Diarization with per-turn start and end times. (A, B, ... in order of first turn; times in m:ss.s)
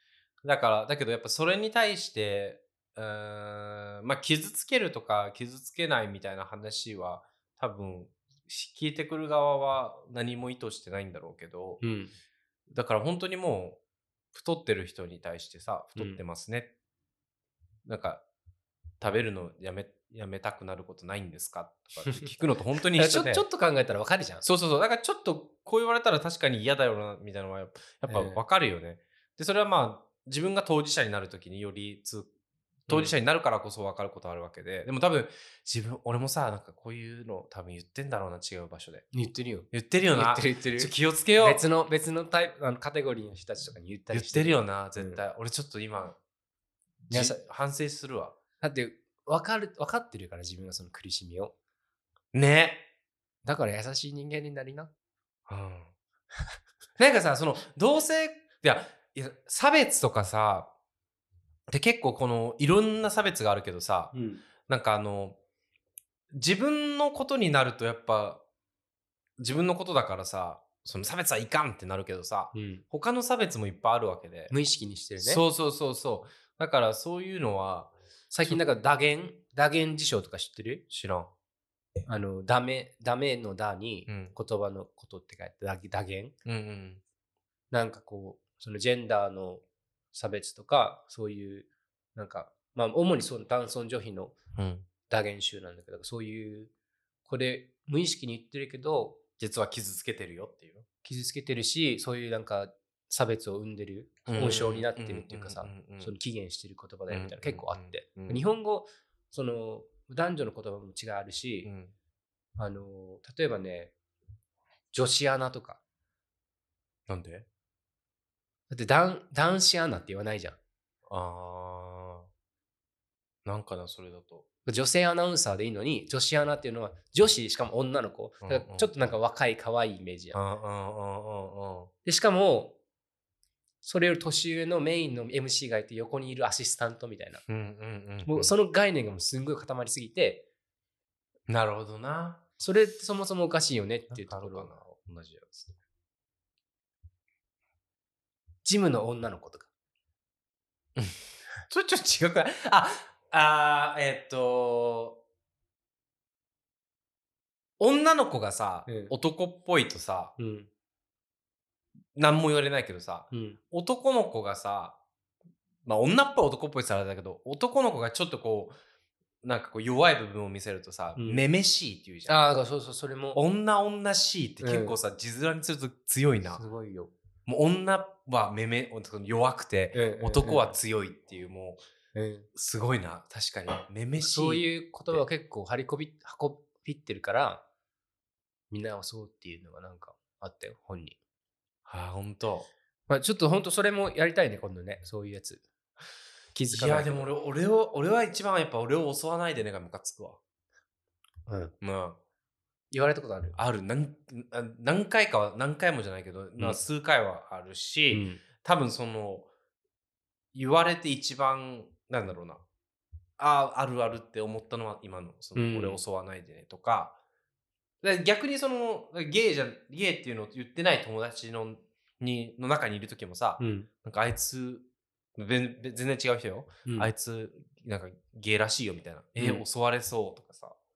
0:00.4-0:11.8 A
0:11.8-0:12.1 B
0:12.7-0:13.8 A
0:14.3-0:16.7 A
0:16.0-0:16.2 B
0:17.8-0:18.2 A
0:19.0-0:23.4 A
0:22.0-0:22.3 B
0:22.9-0:24.4 B
0:24.4-0:32.3 A
0:28.1-0:28.4 B
0:32.9-0:39.1 A
0:32.9-0:33.2 B
0:39.1-0:45.2 B
0:39.7-0:41.6 A
0:44.1-0:46.2 A
0:47.1-0:48.4 A
0:47.1-0:47.4 B
0:48.6-0:51.5 B
0:52.3-0:52.9 A
0:53.4-0:54.9 B
0:55.5-0:55.9 A
0:57.0-1:00.7 A
1:01.7-1:04.1 A
1:04.1-1:04.4 B
1:04.6-1:05.4 A
1:06.3-1:08.4 A
1:09.4-1:14.5 A
1:12.5-1:12.8 B
1:14.5-1:15.4 B
1:15.2-1:18.6 A
1:18.3-1:20.8 B
1:20.9-1:21.3 A
1:22.1-1:26.4 B
1:24.1-1:24.4 A
1:26.5-1:27.0 A
1:27.7-1:34.4 B
1:34.6-1:34.9 A
1:35.1-1:36.7 B
1:37.3-1:39.2 B
1:39.4-1:40.9 A
1:41.0-1:51.7 B
1:44.3-1:46.1 A
1:47.1-1:48.4 A
1:51.6-1:51.9 A
1:52.6-1:53.9 B
1:54.9-1:55.8 B
1:57.1-1:57.5 A
1:58.7-2:00.6 B
2:01.1-2:02.3 A
2:03.4-2:04.5 A
2:04.7-2:10.4 B
2:08.4-2:08.9 A
2:10.3-2:11.9 A
2:12.0-2:12.8 B
2:13.8-2:17.4 B
2:17.5-2:18.5 A
2:18.2-2:20.4 B
2:21.5-2:22.4 A
2:22.6-2:24.7 B
2:24.1-2:25.8 A
2:28.6-2:29.7 B
2:31.0-2:35.2 A
2:37.8-2:40.4 A
2:38.9-2:39.1 B
2:40.4-2:40.7 B
2:42.2-2:45.0 A
2:43.3-2:43.6 B
2:45.8-2:48.8 A
2:49.4-2:52.4 A
2:51.2-2:51.4 B
2:52.3-2:53.4 B
2:53.3-2:56.6 A
2:54.6-2:55.0 B
2:56.5-2:57.1 B
2:57.5-3:01.8 A
2:59.9-3:00.8 B
3:02.2-3:02.5 B
3:02.6-3:05.2 A
3:04.2-3:07.6 B
3:08.7-3:11.2 B
3:11.9-3:12.7 A
3:13.1-3:15.6 B
3:16.5-3:17.3 B
3:16.7-3:20.4 A
3:21.5-3:21.7 B
3:21.8-3:22.2 A
3:22.9-3:23.6 B
3:23.6-3:29.5 A
3:28.1-3:28.4 B
3:30.5-3:32.6 A
3:33.4-3:37.2 A
3:35.6-3:36.0 B
3:38.0-3:50.8 A
3:43.6-3:43.9 B
3:46.8-3:47.1 B
3:49.4-3:49.6 B